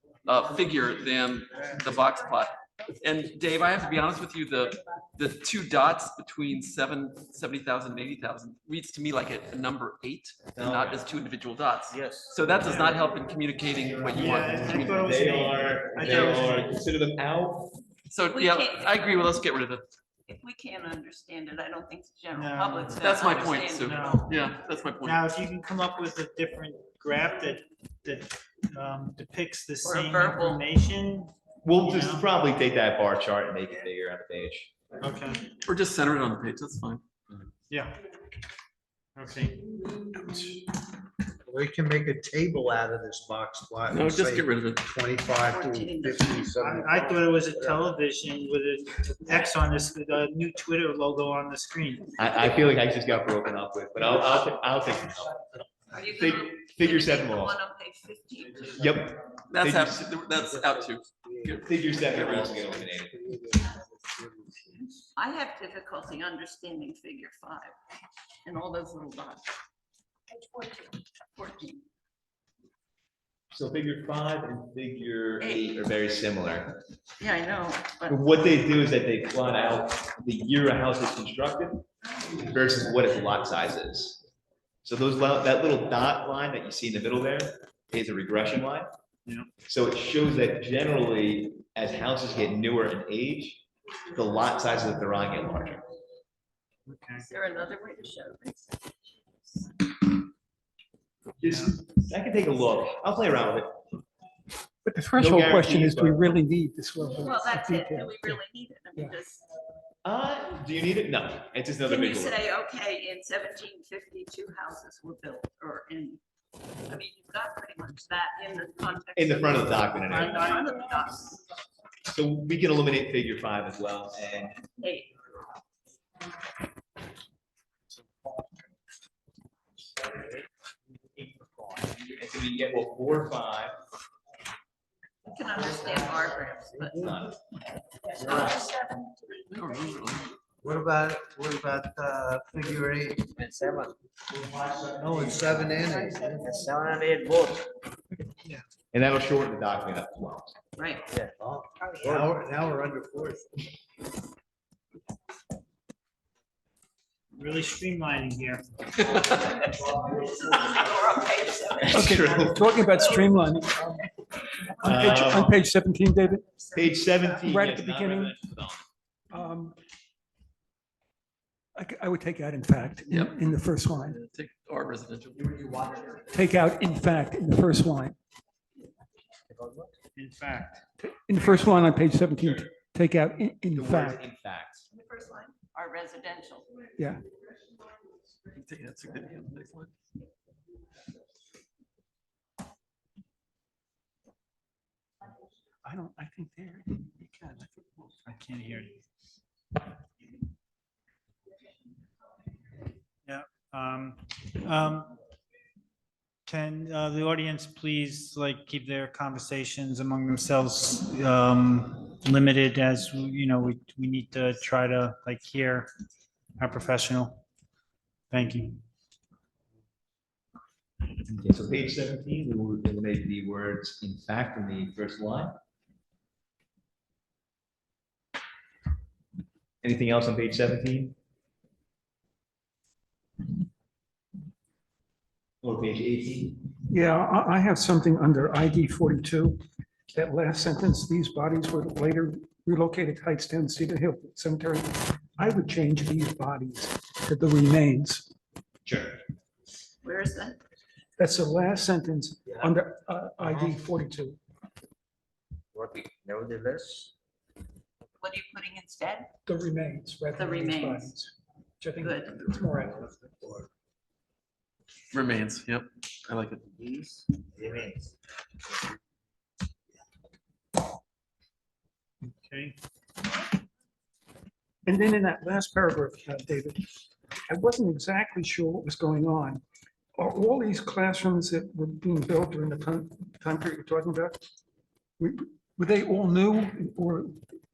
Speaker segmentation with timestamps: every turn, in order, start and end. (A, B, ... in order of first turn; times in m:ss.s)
0:00.2-0:15.1 A
0:10.5-0:11.0 B
0:11.9-0:12.3 C
0:14.0-0:17.7 B
0:14.1-0:16.7 D
0:16.1-0:16.4 E
0:18.1-0:19.8 A
0:18.3-0:19.3 E
0:20.3-0:24.4 E
0:22.3-0:24.3 D
0:23.0-0:25.2 A
0:25.0-0:32.2 D
0:29.8-0:30.7 E
0:31.6-0:34.7 B
0:35.0-0:35.4 D
0:35.6-0:37.0 A
0:37.7-0:38.0 D
0:39.2-0:39.6 D
0:40.1-0:40.6 A
0:41.4-0:47.8 F
0:43.9-0:44.9 A
0:45.4-0:46.6 E
0:46.5-0:52.1 D
0:52.2-0:55.4 B
0:55.9-0:58.8 E
0:56.1-0:57.6 B
0:58.7-1:00.0 B
0:59.5-1:02.6 A
1:01.2-1:01.6 F
1:01.6-1:03.2 B
1:02.2-1:04.8 F
1:05.2-1:07.7 E
1:08.4-1:09.5 E
1:10.3-1:11.8 E
1:13.5-1:16.8 B
1:17.2-1:18.8 E
1:18.1-1:24.2 B
1:24.8-1:28.9 B
1:29.7-1:33.6 B
1:34.1-1:35.8 B
1:36.9-1:37.3 D
1:37.2-1:38.7 E
1:41.4-1:43.8 B
1:41.4-1:41.7 D
1:44.8-1:48.4 G
1:45.2-1:46.2 B
1:47.2-1:49.4 E
1:50.0-1:52.4 B
1:51.8-1:56.2 E
1:56.9-2:01.4 E
1:59.1-2:00.5 B
2:00.1-2:01.0 D
2:02.1-2:04.6 B
2:04.8-2:05.2 E
2:12.1-2:13.7 B
2:15.3-2:17.1 E
2:16.9-2:17.4 B
2:18.1-2:19.4 E
2:19.5-2:20.3 A
2:20.6-2:23.3 F
2:23.3-2:23.9 C
2:24.4-2:26.6 F
2:26.3-2:27.7 C
2:28.9-2:30.6 B
2:30.8-2:31.2 E
2:31.1-2:32.4 C
2:31.4-2:33.6 F
2:37.3-2:39.3 D
2:39.5-2:42.5 E
2:41.9-2:42.6 B
2:41.9-2:44.1 G
2:44.8-2:46.5 G
2:44.8-2:45.6 B
2:46.7-2:48.8 B
2:47.4-2:48.4 G
2:49.3-2:49.8 G
2:51.8-2:54.2 G
2:53.1-2:53.4 A
2:54.0-2:55.6 A
2:56.3-2:58.2 G
2:59.5-2:59.9 C
3:00.1-3:00.8 D
3:01.0-3:04.2 G
3:03.8-3:04.8 B
3:04.9-3:06.9 E
3:08.5-3:09.9 A
3:15.8-3:18.1 G
3:18.2-3:18.9 D
3:23.2-3:25.2 D
3:26.4-3:35.9 D
3:36.6-3:37.4 D
3:38.3-3:38.8 D
3:41.2-3:45.5 B
3:49.8-3:51.1 B
3:55.6-3:56.6 B
3:56.9-3:59.6 G
4:00.1-4:08.3 G
4:08.8-4:09.2 B
4:10.0-4:10.6 E
4:11.2-4:14.4 G
4:15.7-4:17.1 C
4:18.2-4:19.3 E
4:19.4-4:23.3 G
4:20.4-4:21.2 E
4:22.0-4:22.4 E
4:25.1-4:26.6 A
4:26.7-4:28.0 C
4:32.2-4:32.8 D
4:34.8-4:39.6 G
4:40.2-4:44.4 G
4:45.2-4:47.4 G